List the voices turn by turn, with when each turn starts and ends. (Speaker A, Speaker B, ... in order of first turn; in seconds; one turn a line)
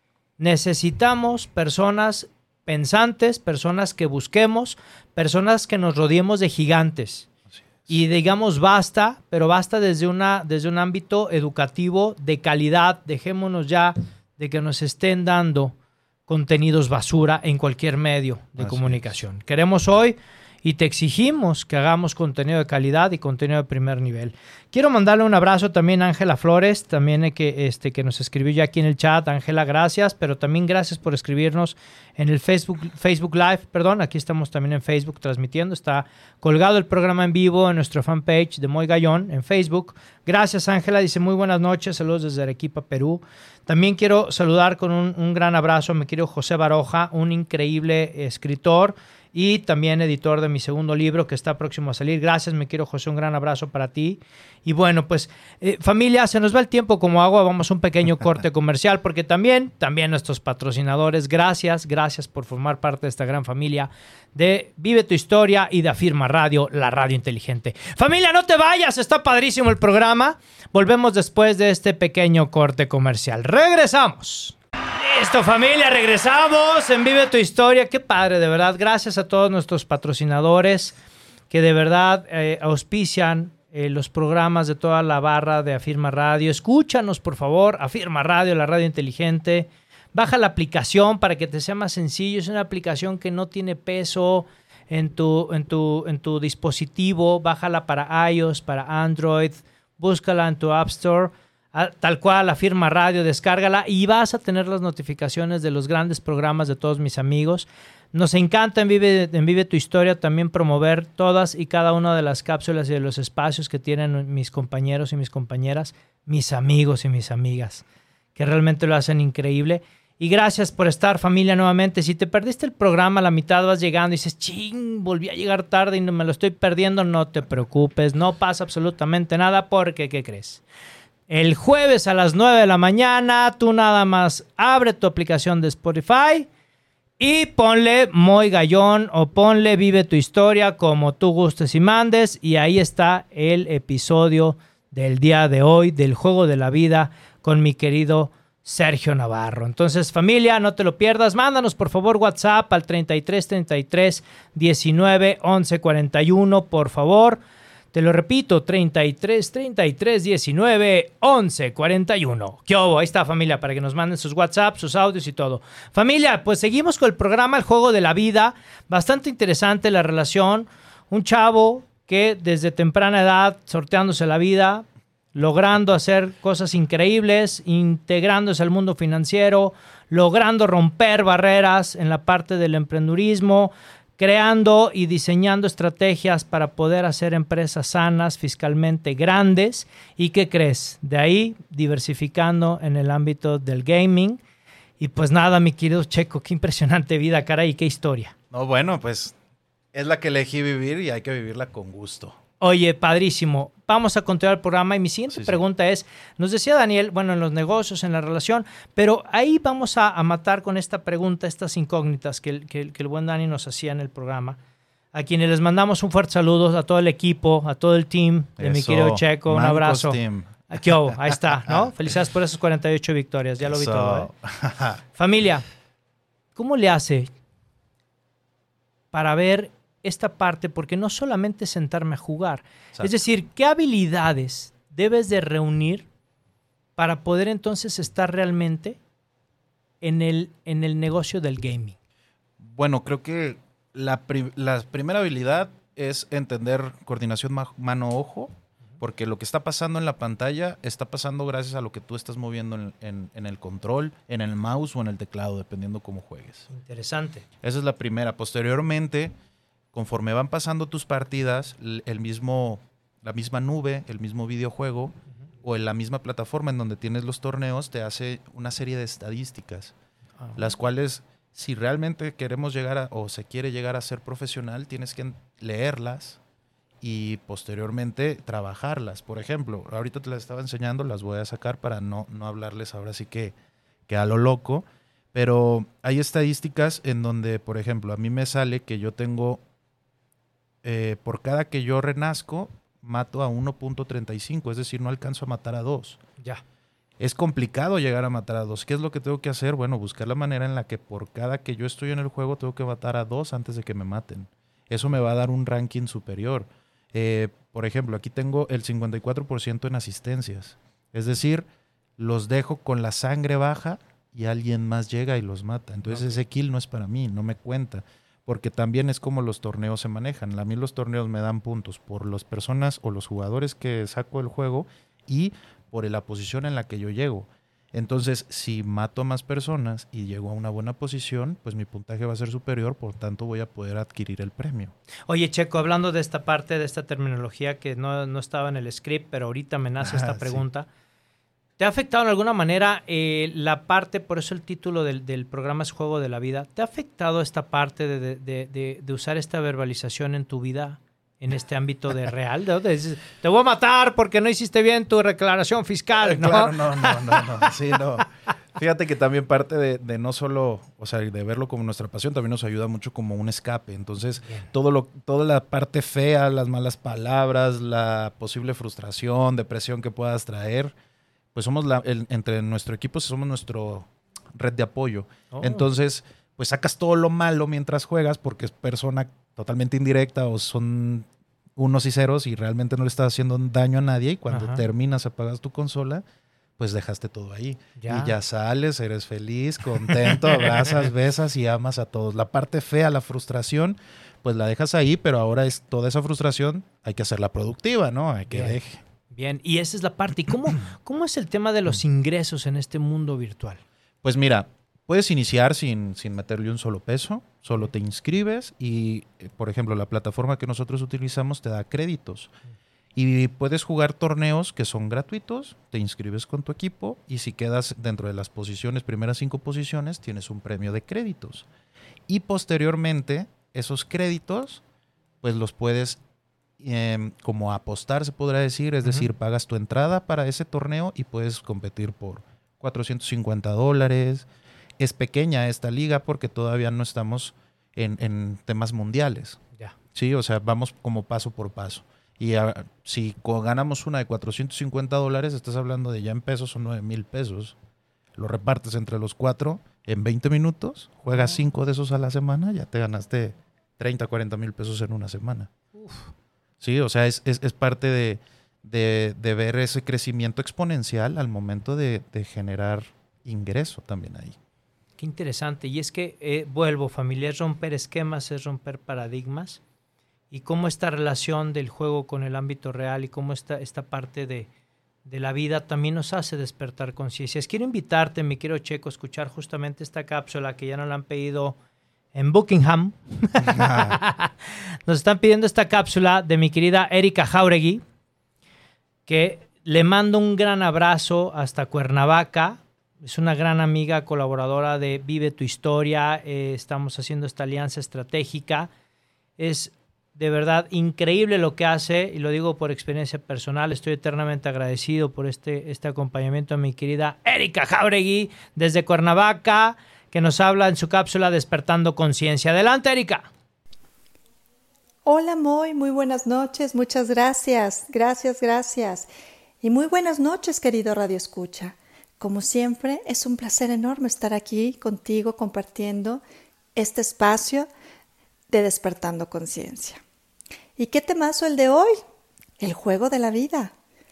Speaker A: 0.4-7.3
Speaker B: 7.5-8.0
Speaker A: 7.9-15.7
Speaker A: 16.3-80.9
Speaker B: 18.6-19.1
Speaker A: 81.5-117.8
Speaker A: 118.3-130.6
Speaker A: 131.3-136.5
Speaker A: 137.2-157.4
Speaker A: 157.9-194.4
Speaker A: 195.0-198.3
Speaker B: 198.5-199.3
Speaker B: 199.9-202.4
Speaker A: 202.6-214.6
Speaker B: 205.3-205.6
Speaker A: 215.1-224.3
Speaker B: 218.6-221.8
Speaker B: 223.6-225.0
Speaker A: 225.1-225.6
Speaker A: 226.5-227.3
Speaker A: 229.1-236.1
Speaker A: 237.0-239.0
Speaker A: 240.0-241.9
Speaker B: 242.6-256.7
Speaker A: 256.7-257.4
Speaker B: 257.6-259.3
Speaker B: 259.9-269.9
Speaker A: 270.4-270.7
Speaker B: 270.6-276.4
Speaker B: 277.0-283.5
Speaker B: 284.1-289.6
Speaker B: 290.8-296.2
Speaker B: 297.2-311.7
Speaker B: 312.2-334.9
Speaker A: 335.3-340.9
Speaker B: 340.0-340.6
Speaker A: 341.8-357.6
Speaker B: 356.2-370.9
Speaker B: 371.5-386.2
Speaker A: 375.5-375.9
Speaker A: 384.5-384.8
Speaker B: 386.8-399.0
Speaker A: 387.9-388.3
Speaker A: 390.3-390.7
Speaker A: 398.5-398.8
Speaker A: 399.3-403.8
Speaker B: 404.2-412.5
Speaker B: 413.1-421.6
Speaker B: 422.3-424.8
Speaker B: 425.4-426.2
Speaker B: 426.8-434.5
Speaker A: 429.0-429.3
Speaker B: 435.0-439.6
Speaker B: 440.1-447.8
Speaker B: 448.4-455.7
Speaker A: 455.9-456.3
Speaker B: 456.8-464.6
Speaker A: 465.2-469.8
Speaker A: 470.5-474.7
Speaker A: 475.2-481.8
Speaker A: 482.3-484.5
Speaker B: 483.6-484.2
Speaker A: 485.1-488.0
Speaker A: 489.3-498.9
Speaker A: 499.6-513.5
Speaker C: 515.2-519.3
Speaker C: 519.8-526.4
Speaker C: 526.9-527.9
Speaker C: 528.7-530.2
Speaker C: 531.0-532.2
Speaker C: 532.8-533.9